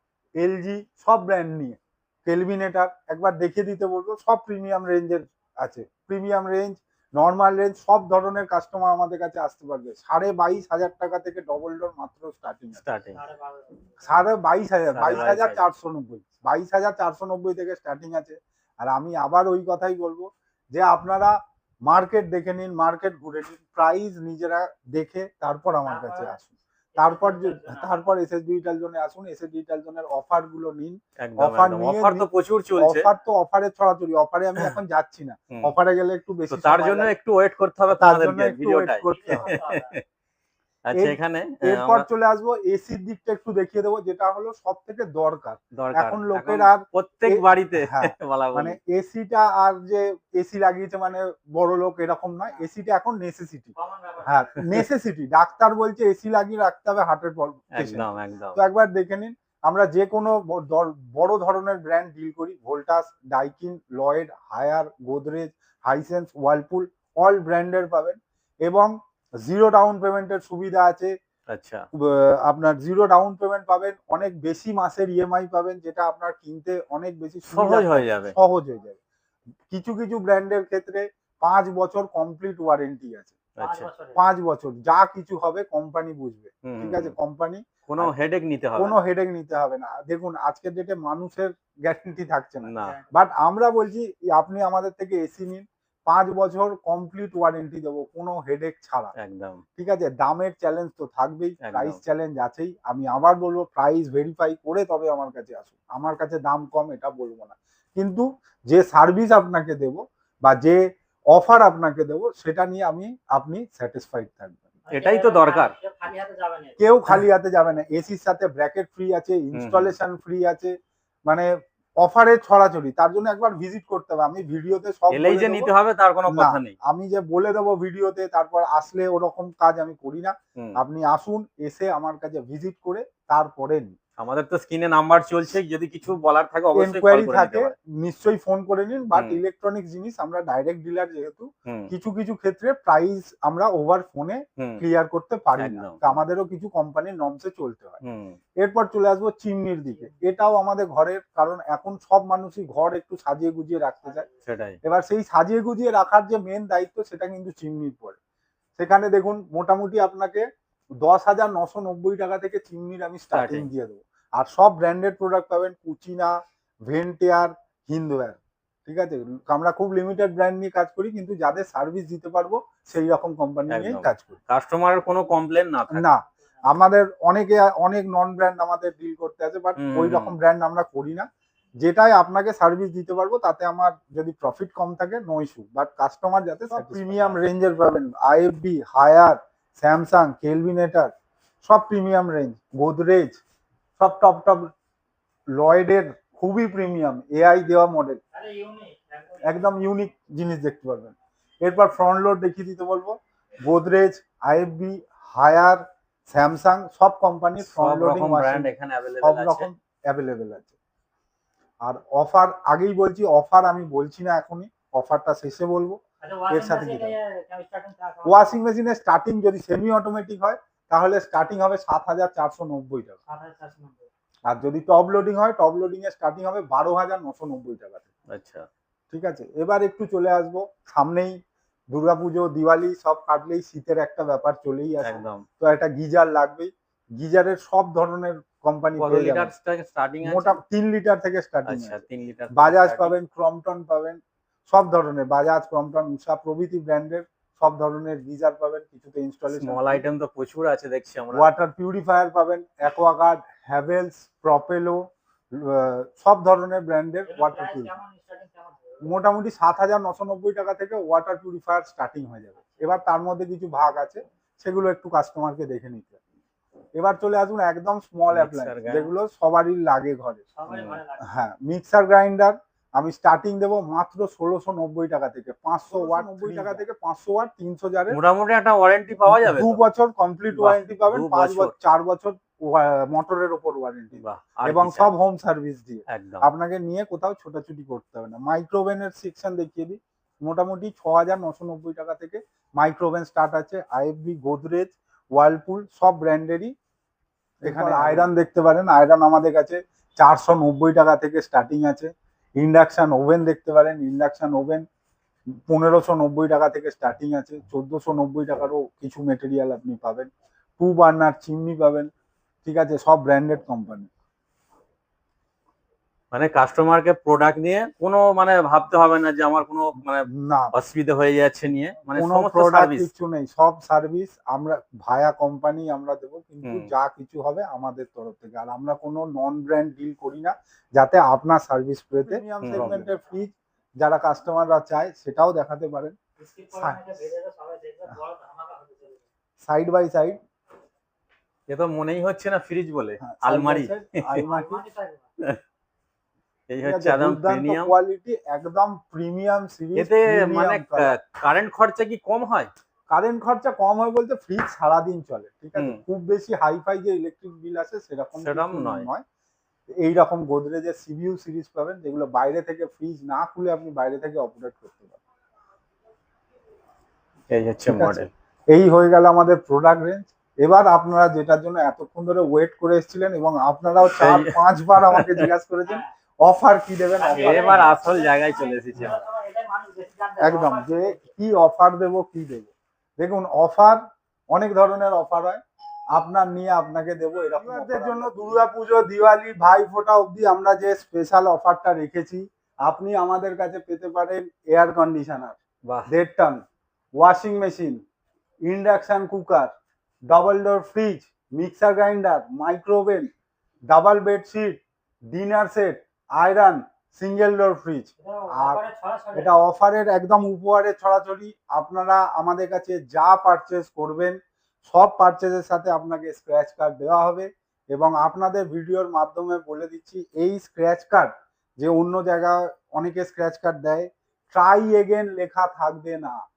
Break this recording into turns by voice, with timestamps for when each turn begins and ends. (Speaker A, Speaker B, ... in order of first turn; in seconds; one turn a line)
Speaker A: 0.4-12.8
Speaker B: 12.8-13.2
Speaker C: 13.1-14.2
Speaker A: 14.0-21.4
Speaker B: 14.9-15.6
Speaker A: 21.9-37.1
Speaker C: 25.9-26.4
Speaker C: 26.9-28.0
Speaker B: 31.2-33.1
Speaker B: 36.5-40.0
Speaker A: 37.9-39.5
Speaker C: 39.1-39.9
Speaker B: 40.9-42.1
Speaker A: 40.9-68.9
Speaker B: 45.8-48.8
Speaker C: 53.8-54.5
Speaker B: 57.8-58.6
Speaker A: 69.4-71.1
Speaker B: 71.5-71.8
Speaker A: 72.0-79.0
Speaker B: 77.5-78.3
Speaker A: 79.7-83.3
Speaker B: 83.6-83.9
Speaker C: 83.6-84.2
Speaker A: 84.2-88.1
Speaker B: 86.7-87.1
Speaker B: 87.9-89.0
Speaker A: 88.8-99.1
Speaker B: 92.7-93.0
Speaker B: 99.2-99.6
Speaker A: 99.8-110.8
Speaker B: 101.6-102.0
Speaker A: 111.3-114.6
Speaker C: 114.9-116.8
Speaker B: 114.9-115.7
Speaker A: 116.8-120.7
Speaker B: 119.5-119.9
Speaker A: 122.0-125.7
Speaker B: 125.1-126.7
Speaker A: 126.3-133.9
Speaker B: 134.2-137.8
Speaker A: 136.8-148.0
Speaker B: 139.1-139.4
Speaker B: 145.6-146.0
Speaker B: 148.0-148.4
Speaker A: 148.6-154.3
Speaker C: 149.9-150.2
Speaker C: 154.1-154.4
Speaker B: 154.5-154.8
Speaker A: 154.8-158.2
Speaker A: 158.8-160.4
Speaker A: 161.0-166.3
Speaker B: 163.3-163.7
Speaker A: 166.9-174.4
Speaker B: 173.7-176.1
Speaker A: 175.9-181.3
Speaker B: 179.8-180.3
Speaker A: 181.8-191.1
Speaker B: 186.7-187.4
Speaker A: 191.6-193.4
Speaker A: 194.0-194.7
Speaker A: 195.6-198.2
Speaker C: 198.3-199.7
Speaker A: 199.4-210.7
Speaker B: 207.6-209.7
Speaker A: 211.8-216.0
Speaker C: 216.2-218.6
Speaker A: 216.5-217.2
Speaker A: 218.2-223.2
Speaker C: 223.3-224.1
Speaker A: 224.5-228.0
Speaker B: 228.3-228.7
Speaker A: 229.1-231.4
Speaker A: 231.9-239.5
Speaker B: 235.0-235.4
Speaker B: 239.0-240.6
Speaker A: 240.2-242.0
Speaker B: 241.7-243.1
Speaker A: 242.5-250.1
Speaker B: 249.5-251.5
Speaker A: 251.3-258.0
Speaker C: 257.3-259.1
Speaker A: 259.0-266.2
Speaker C: 262.6-262.9
Speaker A: 267.0-270.4
Speaker B: 268.3-269.1
Speaker C: 270.6-271.2
Speaker B: 270.7-271.0
Speaker A: 271.2-278.2
Speaker B: 275.9-276.8
Speaker B: 278.1-279.8
Speaker A: 279.3-296.7
Speaker B: 280.5-281.7
Speaker B: 284.2-285.1
Speaker B: 286.1-286.5
Speaker B: 297.6-298.3
Speaker A: 297.6-304.8
Speaker A: 305.7-312.1
Speaker A: 312.6-314.1
Speaker B: 316.3-323.1
Speaker A: 320.3-320.7
Speaker A: 322.1-336.1
Speaker B: 326.6-326.9
Speaker B: 332.6-333.1
Speaker C: 336.4-339.2
Speaker A: 336.7-337.2
Speaker A: 339.6-340.4
Speaker B: 341.7-344.4
Speaker A: 343.2-344.8
Speaker C: 344.4-345.2
Speaker B: 346.7-347.9
Speaker A: 346.8-351.1
Speaker B: 349.9-352.7
Speaker A: 353.1-359.2
Speaker B: 355.8-356.0
Speaker B: 358.4-359.1
Speaker A: 360.0-365.2
Speaker B: 367.5-368.3
Speaker A: 367.9-377.9
Speaker B: 374.0-375.5
Speaker C: 377.2-381.2
Speaker B: 377.2-379.2
Speaker A: 380.4-384.0
Speaker A: 384.5-385.6
Speaker A: 386.1-396.6
Speaker A: 397.2-398.0
Speaker A: 398.6-399.7
Speaker A: 400.3-403.3
Speaker A: 403.9-404.8
Speaker A: 405.3-408.8
Speaker C: 408.2-409.5
Speaker A: 409.3-426.4